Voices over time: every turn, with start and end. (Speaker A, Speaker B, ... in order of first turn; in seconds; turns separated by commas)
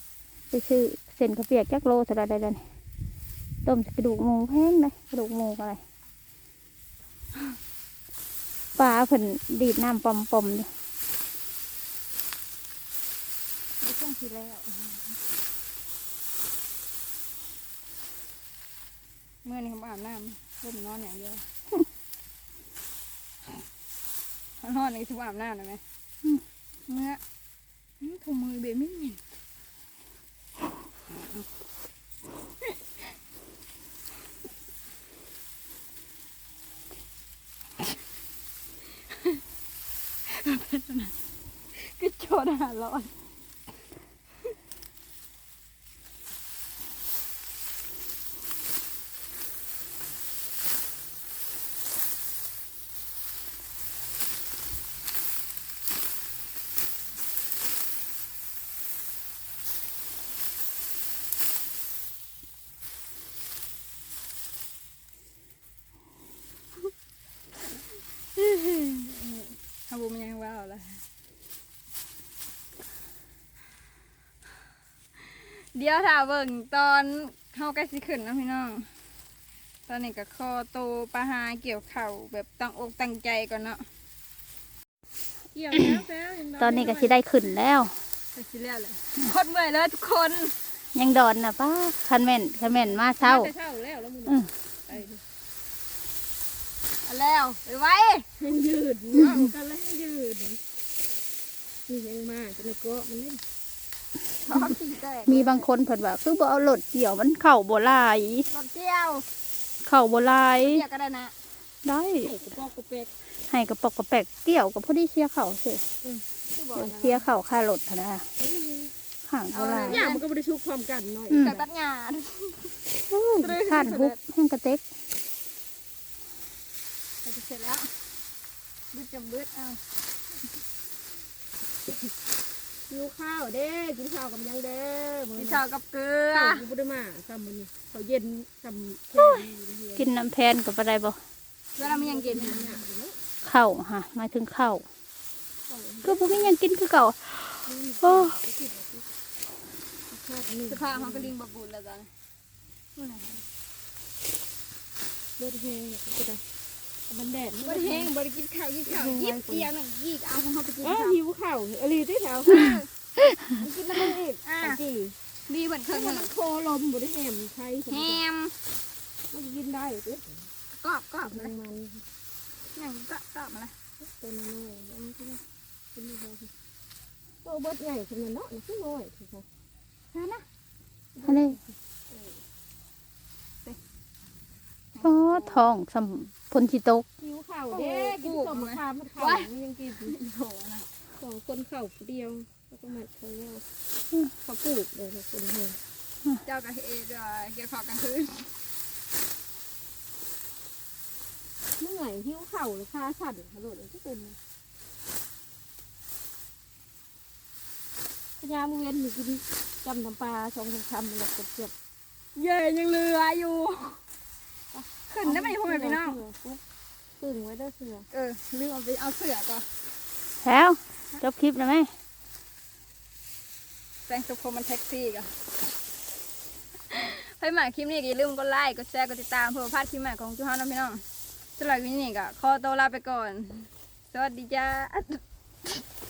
Speaker A: 0.5-2.6, Speaker A: 3.6-5.8, Speaker A: 8.8-10.7, Speaker B: 13.8-15.2, Speaker B: 19.4-21.4, Speaker B: 24.6-25.8, Speaker B: 26.9-27.2, Speaker B: 28.0-29.2, Speaker B: 39.1-39.4, Speaker B: 40.3-41.1, Speaker B: 41.8-43.1, Speaker B: 68.3-71.0, Speaker B: 75.2-78.9, Speaker B: 79.9-83.9, Speaker C: 85.5-87.2, Speaker A: 86.6-87.9, Speaker B: 88.3-90.5, Speaker A: 91.0-93.5, Speaker C: 92.7-95.2, Speaker A: 94.3-94.5, Speaker B: 97.0-98.3, Speaker C: 98.4-100.6, Speaker A: 99.2-99.5, Speaker C: 101.9-103.4, Speaker B: 104.4-105.7, Speaker A: 105.3-108.5, Speaker B: 108.5-109.2, Speaker A: 109.8-110.8, Speaker B: 110.6-111.3, Speaker A: 111.8-112.3, Speaker C: 112.2-113.1, Speaker A: 113.5-115.8, Speaker B: 116.6-117.2, Speaker A: 116.8-118.3, Speaker C: 118.4-118.9, Speaker A: 119.3-120.0, Speaker B: 119.5-120.2, Speaker C: 119.9-121.7, Speaker B: 121.3-122.7, Speaker A: 123.1-124.8, Speaker B: 123.4-124.2, Speaker B: 127.2-127.9, Speaker B: 128.9-129.8, Speaker C: 132.9-135.6, Speaker B: 135.4-136.6, Speaker C: 136.3-140.1, Speaker A: 139.2-141.2, Speaker B: 141.8-142.8, Speaker C: 141.8-143.2, Speaker A: 143.4-144.8, Speaker C: 145.7-146.5, Speaker A: 146.0-148.4, Speaker C: 147.7-149.1, Speaker C: 150.1-151.3, Speaker B: 150.7-152.1, Speaker B: 153.0-153.4, Speaker C: 155.4-156.4, Speaker C: 157.1-158.1, Speaker B: 157.6-161.2, Speaker C: 158.9-159.7, Speaker C: 160.8-162.7, Speaker B: 162.5-162.9, Speaker C: 163.5-165.2, Speaker B: 164.4-164.8, Speaker B: 165.5-166.3, Speaker C: 165.9-168.2, Speaker B: 167.9-168.6, Speaker C: 169.3-170.5, Speaker B: 170.7-171.5, Speaker C: 171.2-172.0, Speaker B: 172.7-173.8, Speaker C: 174.0-175.4, Speaker C: 176.0-176.5, Speaker C: 177.4-179.5, Speaker B: 180.1-180.5, Speaker C: 181.2-181.6, Speaker A: 181.2-181.6, Speaker B: 184.9-185.7, Speaker A: 185.0-187.1, Speaker C: 187.2-190.2, Speaker B: 187.7-189.5, Speaker B: 190.0-190.9, Speaker C: 191.2-193.6, Speaker C: 194.4-195.8, Speaker B: 196.4-198.5, Speaker C: 201.8-204.4, Speaker C: 208.4-211.7, Speaker B: 212.4-214.0, Speaker C: 214.7-216.6, Speaker B: 215.1-216.2, Speaker C: 217.2-218.1, Speaker B: 218.1-219.7, Speaker A: 220.4-221.9, Speaker B: 224.1-225.3, Speaker B: 226.9-231.0, Speaker B: 231.6-235.2